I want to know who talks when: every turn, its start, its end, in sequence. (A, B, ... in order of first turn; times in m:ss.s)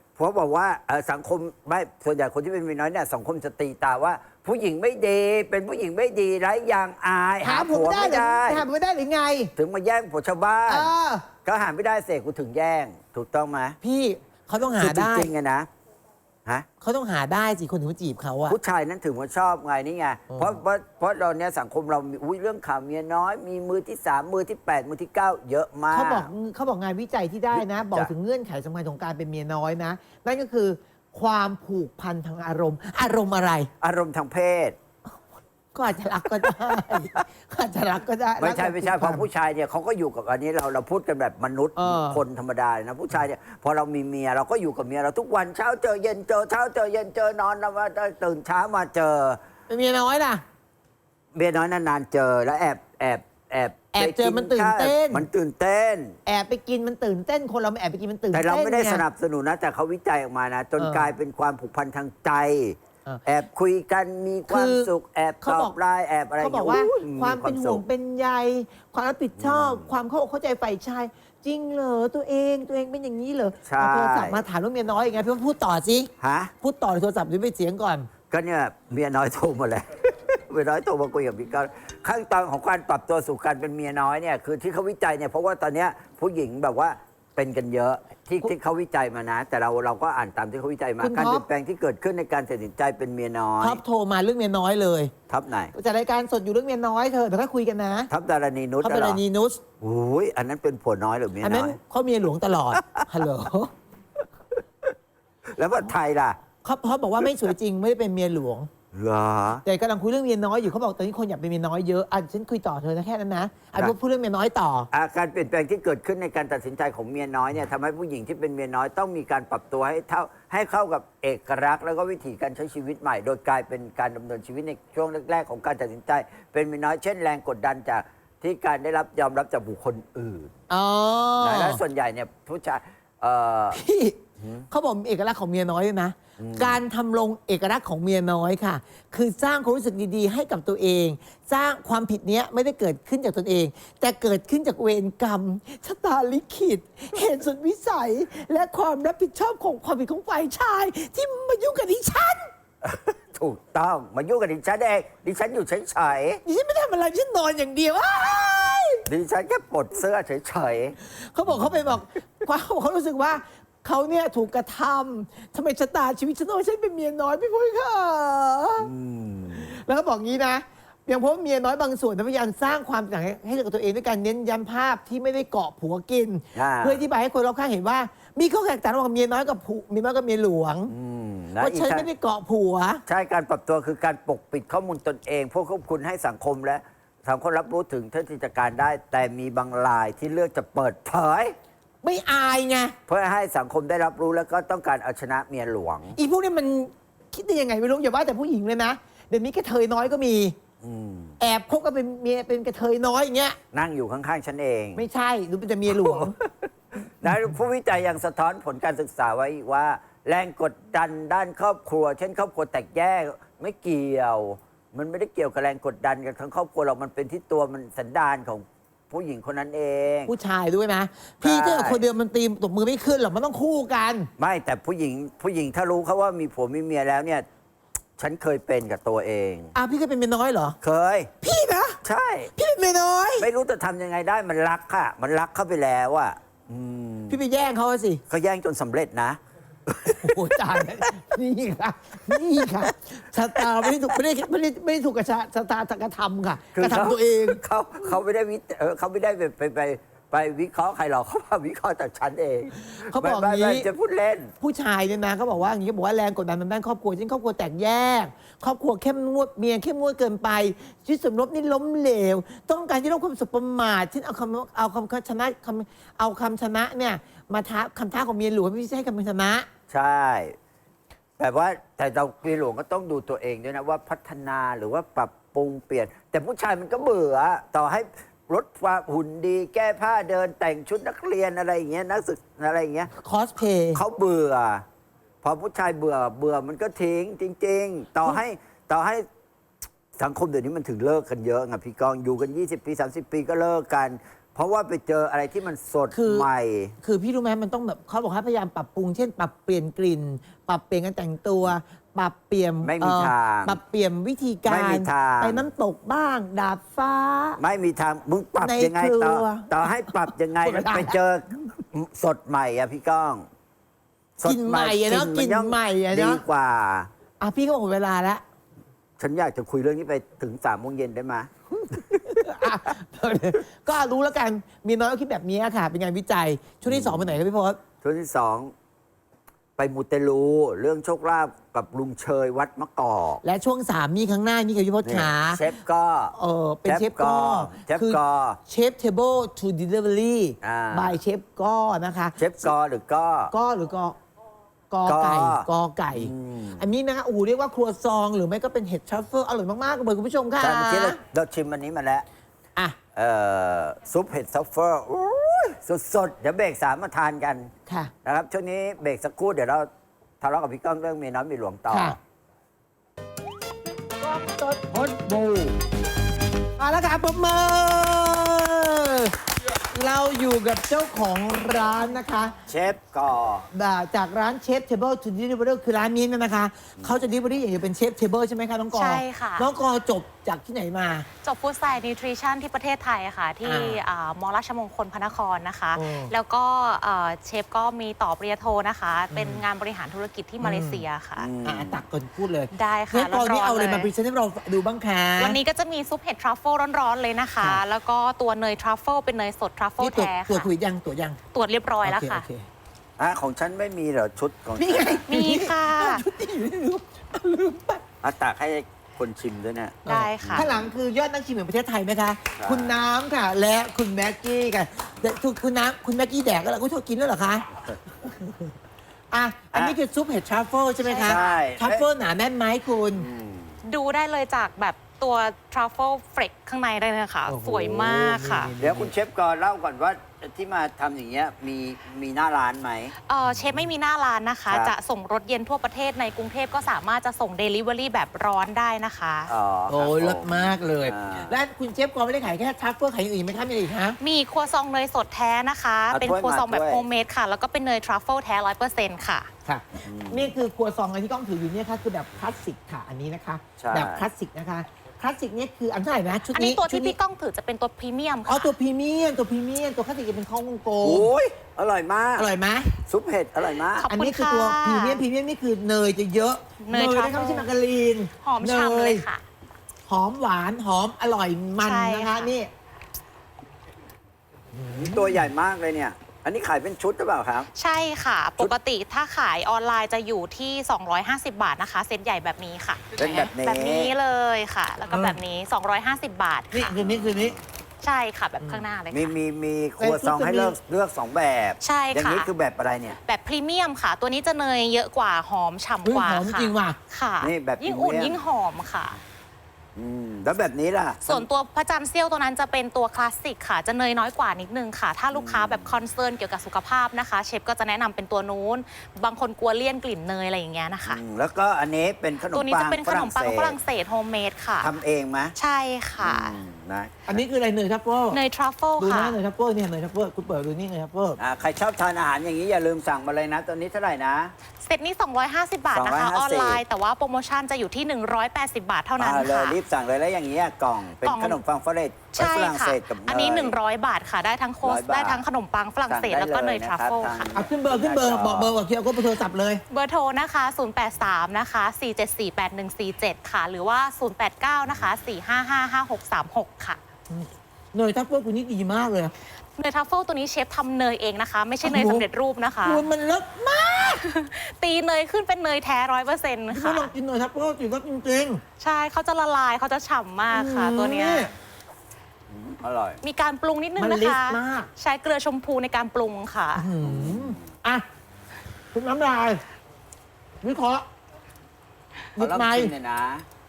0:00.2-0:08.7 A
0:07.4-0:09.5 B
0:09.6-0:10.9 A
0:10.7-0:11.2 B
0:11.4-0:13.8 A
0:13.8-0:15.3 B
0:14.8-0:15.7 A
0:16.8-0:18.6 B
0:18.5-0:26.3 A
0:20.3-0:20.6 B
0:25.9-0:33.7 B
0:27.5-0:28.1 A
0:33.8-0:34.8 A
0:35.7-0:39.3 B
0:36.4-0:37.2 A
0:38.4-0:49.4 A
0:41.8-0:42.2 B
0:49.7-0:50.4 B
0:51.3-0:56.2 A
0:53.9-0:55.3 B
0:56.2-0:59.0 B
0:58.3-1:07.8 A
1:00.8-1:01.1 B
1:04.5-1:04.9 B
1:05.4-1:05.8 B
1:06.4-1:18.1 B
1:09.4-1:09.9 A
1:13.6-1:14.4 A
1:16.2-1:16.5 A
1:18.3-1:33.8 A
1:31.0-1:31.4 B
1:33.6-1:35.1 B
1:35.3-1:35.7 A
1:35.7-1:38.1 B
1:38.1-1:39.2 A
1:38.8-1:39.6 B
1:39.8-1:41.8 A
1:41.4-1:43.7 B
1:45.5-1:46.4 A
1:46.6-1:48.7 B
1:48.9-1:49.6 A
1:49.6-1:54.9 B
1:54.9-2:10.5 A
2:10.7-2:11.8 B
2:11.4-2:13.8 A
2:13.7-2:32.5 B
2:14.4-2:14.7 A
2:16.4-2:16.8 A
2:32.8-2:36.4 A
2:36.4-2:39.0 B
2:39.1-2:41.0 A
2:41.1-2:48.9 B
2:41.5-2:41.8 A
2:48.8-2:49.7 A
2:49.6-3:00.9 B
2:56.5-2:57.0 A
3:00.9-3:02.1 A
3:01.6-3:03.0 B
3:03.0-3:11.5 A
3:12.0-3:12.9 B
3:13.1-3:16.2 A
3:16.1-3:20.5 B
3:20.8-3:21.4 A
3:21.4-3:23.6 B
3:23.7-3:25.0 A
3:24.9-3:26.3 B
3:25.9-3:26.5 A
3:27.2-3:40.3 A
3:40.3-3:44.3 B
3:41.4-3:42.0 A
3:44.4-3:47.4 A
3:48.2-3:49.7 A
3:49.7-3:50.8 B
3:50.8-3:51.3 A
3:51.4-3:52.0 B
3:52.0-3:52.5 A
3:52.5-3:53.5 B
3:53.4-3:57.4 A
3:57.3-3:58.2 B
3:58.3-4:00.8 A
4:00.2-4:07.6 B
4:06.7-4:14.5 A
4:12.8-4:13.9 B
4:14.6-4:29.6 B
4:29.9-4:30.5 A
4:31.4-4:43.1 A
4:43.1-4:44.0 B
4:43.9-4:44.8 A
4:45.4-4:49.2 A
4:50.2-4:57.0 A
4:56.1-4:56.5 B
4:57.0-5:07.6 B
5:02.8-5:03.8 A
5:04.6-5:05.7 A
5:07.6-5:13.4 A
5:08.6-5:11.2 B
5:14.4-5:17.1 A
5:14.4-5:16.4 B
5:17.4-5:18.4 B
5:19.2-5:21.5 A
5:21.8-5:27.8 B
5:26.8-5:27.4 A
5:28.0-5:28.7 A
5:29.8-5:33.4 A
5:33.4-5:35.6 B
5:35.0-5:36.3 A
5:36.3-5:42.7 B
5:36.8-5:38.6 A
5:40.6-5:41.2 A
5:42.4-5:43.5 A
5:43.5-5:44.2 B
5:44.9-5:51.2 B
5:45.0-5:46.8 A
5:50.6-5:52.2 A
5:53.1-5:57.7 A
5:57.9-5:58.1 B
5:58.2-5:59.9 A
6:00.4-6:02.2 A
6:01.9-6:02.2 B
6:04.2-6:05.1 B
6:05.2-6:05.6 A
6:06.8-6:09.3 B
6:09.9-6:12.6 B
6:12.7-6:13.6 A
6:13.7-6:21.3 B
6:18.9-6:19.7 C
6:21.4-6:31.5 C
6:23.6-6:24.0 B
6:25.9-6:26.3 B
6:29.3-6:29.6 B
6:30.6-6:31.0 B
6:31.4-6:32.0 A
6:31.6-6:35.6 B
6:32.7-6:34.1 C
6:35.4-6:40.7 C
6:40.0-6:41.4 B
6:41.5-6:42.4 C
6:42.0-6:42.6 B
6:43.2-6:45.2 A
6:44.8-6:48.0 B
6:45.3-6:46.2 C
6:48.2-6:50.9 A
6:50.0-6:50.7 C
6:50.0-6:57.6 B
6:52.6-6:53.0 A
6:58.2-6:58.6 B
6:59.3-7:03.3 B
7:01.0-7:01.6 C
7:01.2-7:02.0 A
7:03.1-7:03.8 A
7:03.8-7:08.7 C
7:07.5-7:09.1 B
7:08.8-7:13.1 A
7:13.3-7:19.5 C
7:14.7-7:14.9 A
7:19.5-7:21.6 A
7:19.9-7:24.2 B
7:24.2-7:29.5 C
7:26.1-7:27.0 A
7:29.6-7:37.1 B
7:30.0-7:30.6 A
7:33.8-7:34.2 A
7:36.5-7:38.7 C
7:38.4-7:41.3 B
7:41.0-7:42.5 A
7:42.4-7:42.9 B
7:43.0-7:44.1 A
7:44.0-7:45.2 C
7:44.1-7:49.2 B
7:46.8-7:47.7 C
7:48.4-7:49.4 C
7:50.1-7:52.7 B
7:51.8-7:52.5 C
7:54.7-7:55.4 B
7:54.9-7:57.7 A
7:57.7-8:06.9 C
8:03.2-8:04.1 A
8:05.1-8:05.4 B
8:06.7-8:07.6 B
8:07.0-8:07.6 A
8:08.0-8:09.3 C
8:09.1-8:13.2 A
8:10.0-8:10.8 B
8:11.8-8:12.5 C
8:13.2-8:19.2 C
8:16.0-8:17.0 B
8:17.4-8:18.4 A
8:20.0-8:21.5 A
8:21.2-8:31.2 C
8:25.3-8:26.0 A
8:31.0-8:33.8 A
8:32.5-8:34.9 C
8:34.8-8:35.5 A
8:35.5-8:36.6 C
8:36.2-8:37.4 A
8:37.3-8:38.4 B
8:38.3-8:39.4 C
8:39.0-8:41.4 B
8:41.4-8:44.5 A
8:44.8-8:49.8 C
8:45.9-8:46.8 A
8:49.2-8:53.8 A
8:51.2-8:51.6 C
8:52.3-8:57.5 C
8:54.8-8:55.4 A
8:56.1-8:58.8 A
8:57.5-8:59.8 B
8:59.9-9:07.0 C
9:07.3-9:09.3 B
9:09.8-9:13.0 C
9:11.8-9:12.2 B
9:12.8-9:14.2 B
9:14.2-9:17.1 C
9:16.7-9:18.6 B
9:18.8-9:21.5 C
9:20.5-9:21.5 B
9:22.5-9:23.2 A
9:23.2-9:26.9 C
9:24.0-9:24.9 B
9:26.8-9:28.0 B
9:27.0-9:27.7 A
9:28.9-9:29.6 B
9:30.6-9:31.0 B
9:32.4-9:32.9 B
9:32.4-9:33.4 A